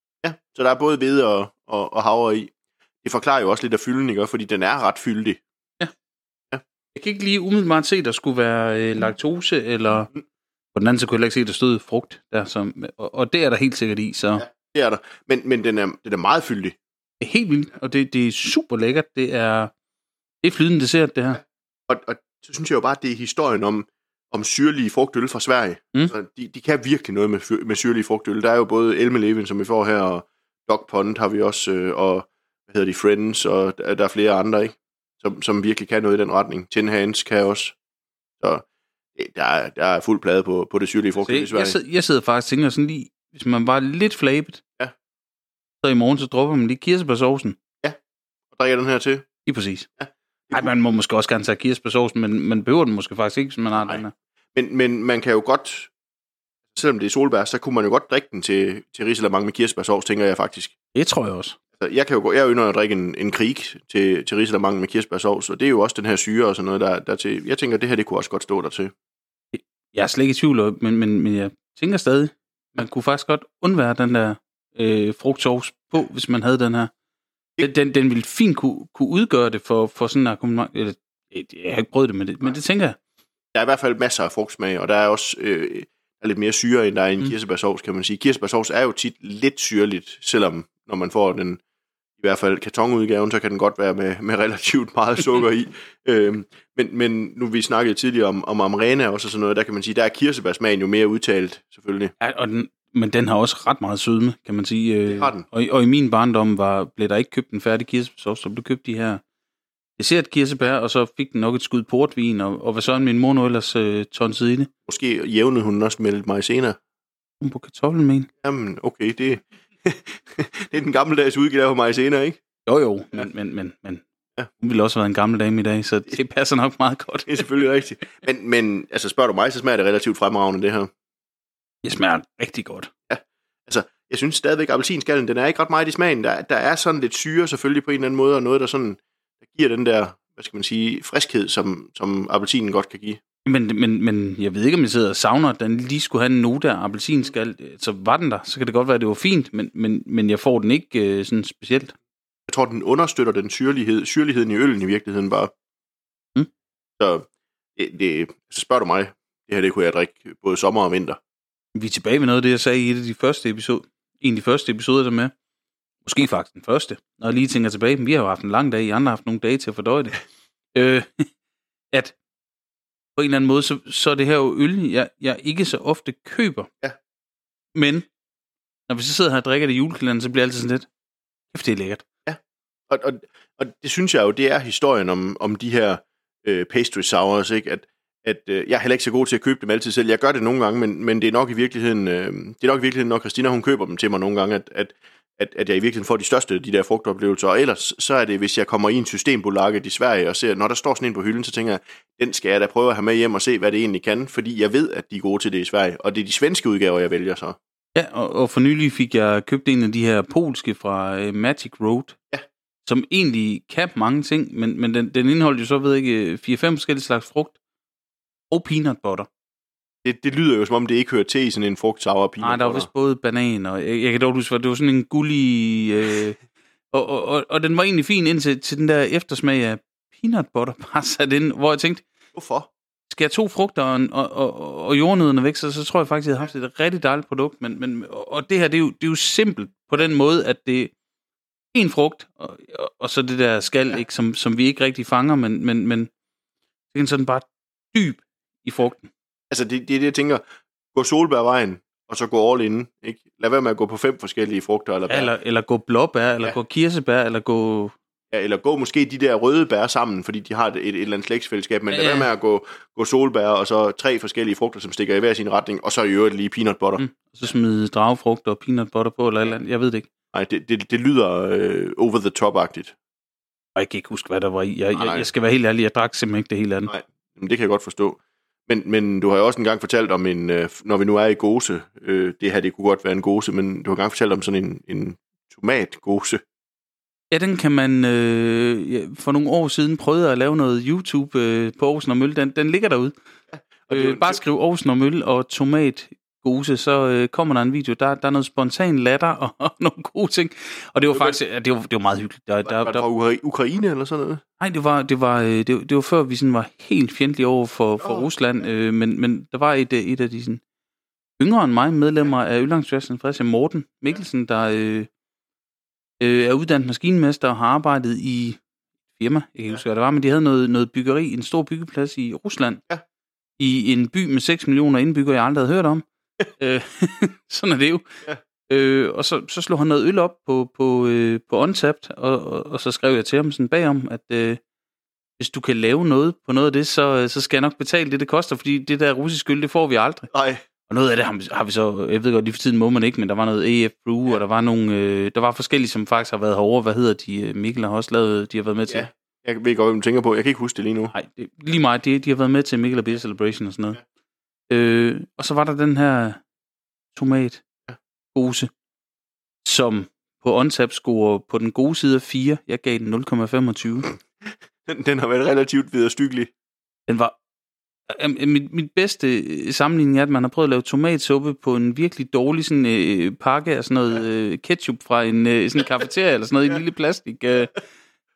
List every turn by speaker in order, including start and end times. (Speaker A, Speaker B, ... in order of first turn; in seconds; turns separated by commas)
Speaker A: 0.2-2.5, Speaker A: 3.0-5.4, Speaker B: 6.9-10.1, Speaker B: 10.7-14.4, Speaker A: 14.4-16.8, Speaker B: 17.2-19.7, Speaker B: 20.4-21.4, Speaker A: 21.9-37.8, Speaker A: 39.1-41.8, Speaker B: 41.2-44.6, Speaker B: 45.8-47.6, Speaker A: 48.5-49.2, Speaker B: 49.5-49.9, Speaker A: 50.0-50.7, Speaker B: 50.5-54.1, Speaker A: 53.7-54.0, Speaker A: 54.5-55.9, Speaker A: 56.7-60.7, Speaker B: 60.9-61.6, Speaker A: 61.8-68.9, Speaker B: 69.5-76.9, Speaker B: 77.6-83.0, Speaker A: 83.5-91.6, Speaker A: 92.2-102.1, Speaker B: 102.2-109.2, Speaker A: 105.1-105.4, Speaker B: 110.0-114.7, Speaker A: 114.9-116.8, Speaker B: 117.4-118.3, Speaker A: 118.4-122.4, Speaker B: 122.7-124.0, Speaker B: 124.6-127.6, Speaker A: 127.3-130.9, Speaker B: 131.8-132.9, Speaker A: 133.1-143.2, Speaker B: 143.4-151.9, Speaker A: 152.5-155.5, Speaker A: 157.0-157.2, Speaker A: 157.8-161.2, Speaker B: 161.7-165.3, Speaker B: 166.0-170.2, Speaker B: 170.7-171.3, Speaker B: 173.2-176.7, Speaker B: 177.7-178.1, Speaker B: 178.9-180.9, Speaker B: 181.5-182.0, Speaker A: 182.2-207.6, Speaker B: 207.9-212.2, Speaker B: 212.8-217.6, Speaker B: 218.5-219.3, Speaker A: 220.0-222.9, Speaker B: 222.4-226.4, Speaker B: 226.9-232.0, Speaker A: 232.3-232.7, Speaker B: 233.1-240.9, Speaker B: 241.7-246.1, Speaker B: 246.9-249.1, Speaker A: 249.5-250.4, Speaker A: 250.9-255.3, Speaker B: 255.1-257.9, Speaker A: 258.3-267.0, Speaker B: 261.9-262.3, Speaker B: 267.0-270.1, Speaker A: 270.3-272.9, Speaker B: 273.8-276.9, Speaker A: 274.9-275.3, Speaker A: 276.9-286.4, Speaker B: 287.3-293.1, Speaker A: 293.5-294.4, Speaker B: 293.9-303.0, Speaker A: 301.1-301.4, Speaker A: 302.6-304.4, Speaker B: 304.6-310.6, Speaker A: 308.0-308.3, Speaker B: 311.4-315.1, Speaker B: 316.2-318.6, Speaker B: 319.1-322.8, Speaker B: 323.6-326.0, Speaker B: 326.6-328.0, Speaker B: 328.7-334.6, Speaker B: 335.4-340.3, Speaker A: 340.3-340.6, Speaker B: 340.9-349.1, Speaker A: 348.9-351.1, Speaker B: 351.1-354.0, Speaker B: 354.7-356.4, Speaker B: 357.1-357.6, Speaker B: 358.3-358.7, Speaker B: 359.6-364.1, Speaker A: 364.9-366.5, Speaker B: 367.1-367.4, Speaker B: 368.1-377.8